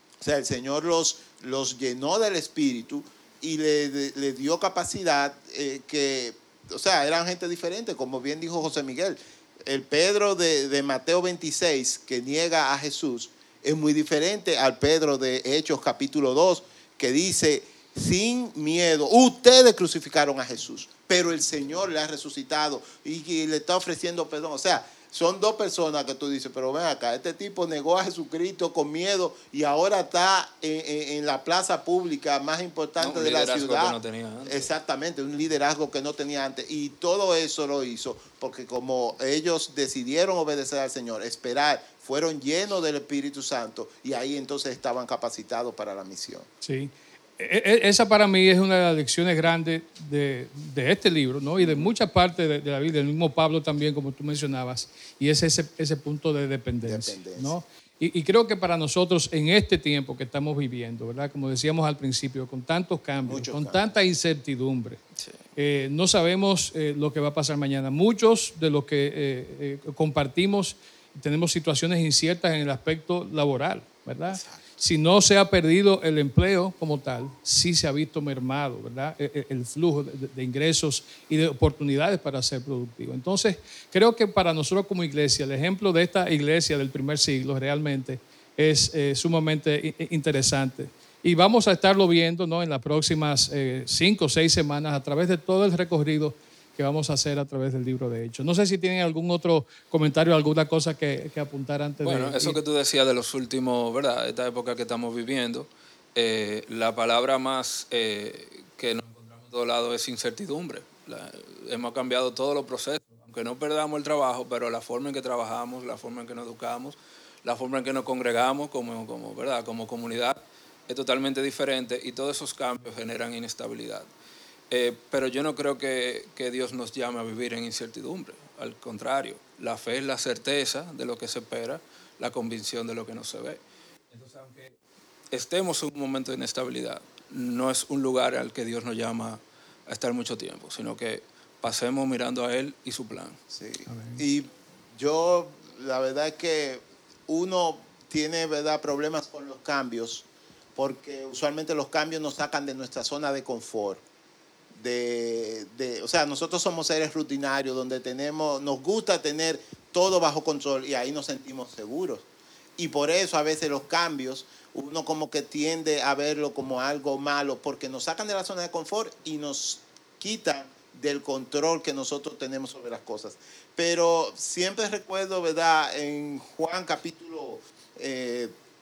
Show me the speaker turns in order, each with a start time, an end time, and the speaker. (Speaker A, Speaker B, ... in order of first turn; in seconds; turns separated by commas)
Speaker A: 0.2-46.5, Speaker B: 33.0-34.7, Speaker C: 46.6-65.0, Speaker A: 51.6-51.9, Speaker A: 56.8-57.5, Speaker A: 63.2-63.9, Speaker C: 65.5-102.6, Speaker A: 74.3-74.7, Speaker B: 102.0-124.1, Speaker B: 124.7-133.6, Speaker B: 134.1-134.8, Speaker B: 135.3-143.3, Speaker A: 143.5-154.0, Speaker C: 143.9-144.2, Speaker A: 154.7-162.3, Speaker A: 162.8-178.5